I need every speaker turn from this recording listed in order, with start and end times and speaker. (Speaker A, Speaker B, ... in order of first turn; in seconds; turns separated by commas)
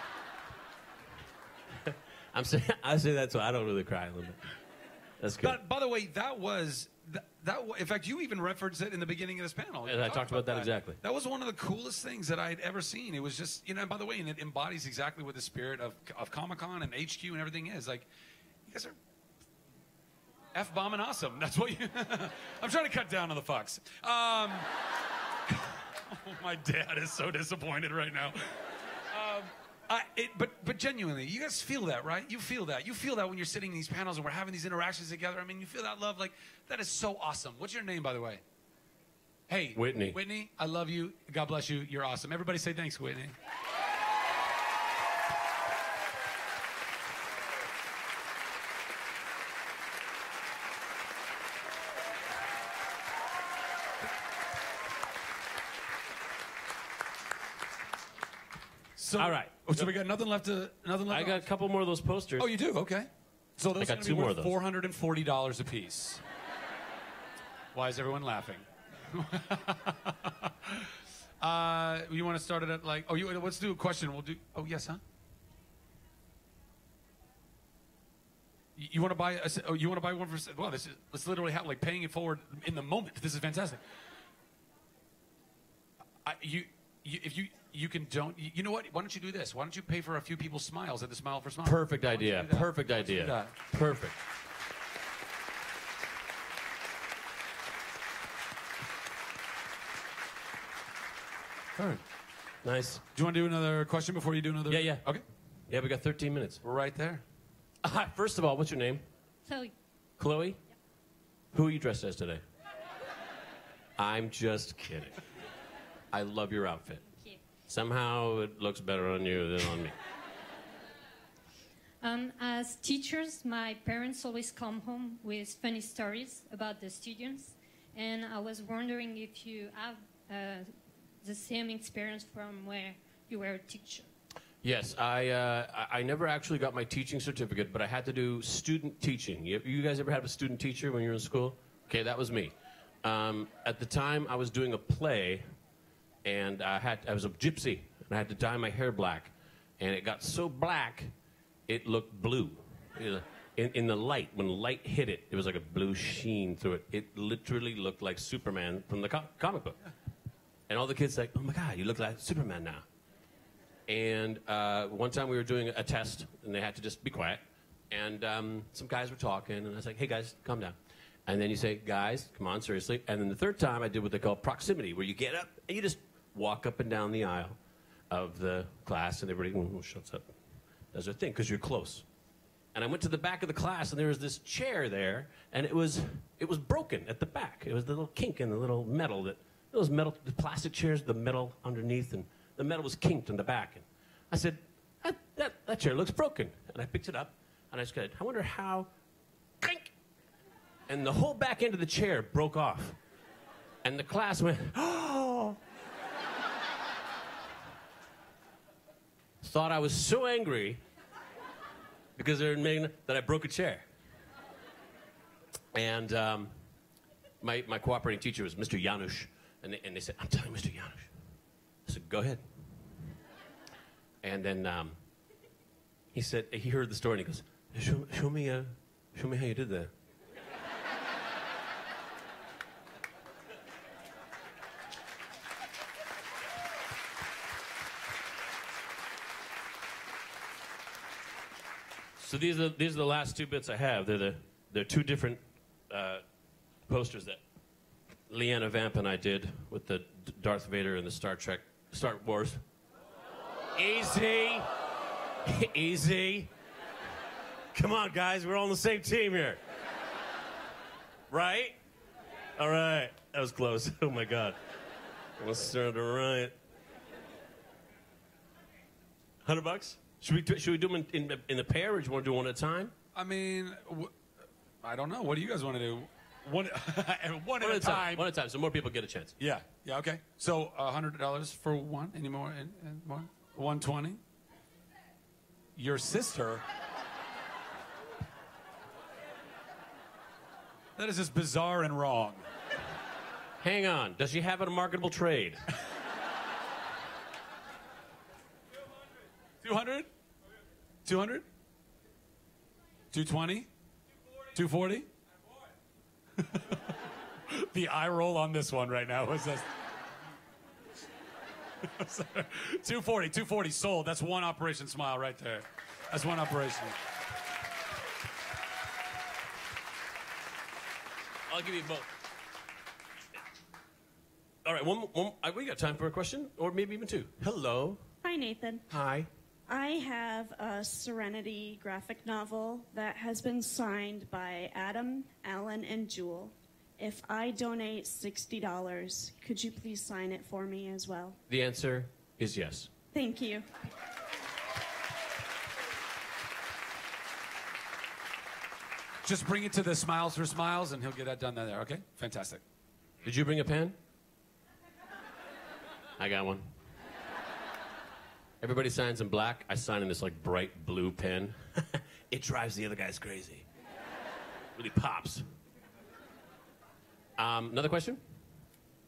Speaker A: 1.9-4.4, Speaker A: 5.2-5.6, Speaker B: 5.4-18.1, Speaker A: 9.8-11.0, Speaker B: 18.6-19.0, Speaker B: 20.5-24.7, Speaker B: 25.5-28.6, Speaker B: 29.1-38.4, Speaker B: 39.5-43.3, Speaker A: 39.7-40.2, Speaker B: 59.0-61.5, Speaker A: 59.1-60.0, Speaker A: 61.1-62.5, Speaker B: 62.4-66.2, Speaker A: 63.8-64.5, Speaker B: 67.7-75.0, Speaker B: 78.8-83.8, Speaker B: 86.2-93.5, Speaker A: 91.6-94.2, Speaker B: 101.7-102.0, Speaker A: 102.6-103.0, Speaker B: 103.1-105.2, Speaker A: 104.7-105.0, Speaker A: 105.7-106.6, Speaker B: 106.6-107.2, Speaker A: 107.8-109.0, Speaker C: 109.5-109.7, Speaker A: 110.2-110.6, Speaker A: 111.5-112.4, Speaker A: 114.0-115.2, Speaker A: 116.1-117.0, Speaker A: 117.7-119.9, Speaker C: 122.0-134.1, Speaker A: 134.6-145.4, Speaker A: 146.2-151.1, Speaker A: 151.7-159.8, Speaker A: 160.7-162.8, Speaker A: 163.9-177.6, Speaker A: 178.1-180.3, Speaker A: 180.9-182.1, Speaker A: 182.7-198.9, Speaker A: 199.6-199.9, Speaker A: 200.9-203.0, Speaker A: 203.8-205.6, Speaker A: 209.4-210.8, Speaker A: 212.2-213.8, Speaker A: 215.7-216.5, Speaker A: 217.4-221.1, Speaker A: 221.8-222.4, Speaker A: 224.2-225.0, Speaker A: 226.1-229.9, Speaker A: 242.2-246.2, Speaker A: 246.9-247.4, Speaker A: 248.3-252.6, Speaker A: 253.8-254.7, Speaker A: 255.4-256.5, Speaker A: 257.7-259.6, Speaker A: 261.3-261.8, Speaker A: 262.6-264.6, Speaker A: 265.4-266.5, Speaker A: 269.4-272.9, Speaker B: 273.1-274.1, Speaker B: 274.8-278.3, Speaker A: 277.6-279.3, Speaker B: 279.4-284.2, Speaker B: 285.8-286.6, Speaker B: 290.9-292.4, Speaker A: 293.6-295.6, Speaker B: 299.6-300.1, Speaker B: 301.0-301.4, Speaker B: 303.1-303.7, Speaker B: 304.5-305.1, Speaker B: 306.4-307.0, Speaker B: 307.5-309.7, Speaker B: 311.8-317.0, Speaker A: 321.5-322.1, Speaker A: 324.6-328.0, Speaker D: 328.2-328.8, Speaker A: 328.9-329.3, Speaker D: 329.7-341.4, Speaker A: 341.5-342.9, Speaker D: 343.1-343.6, Speaker B: 349.2-352.6, Speaker A: 353.2-354.0, Speaker A: 356.2-356.7, Speaker A: 358.6-363.6, Speaker A: 364.8-365.4, Speaker A: 367.4-368.2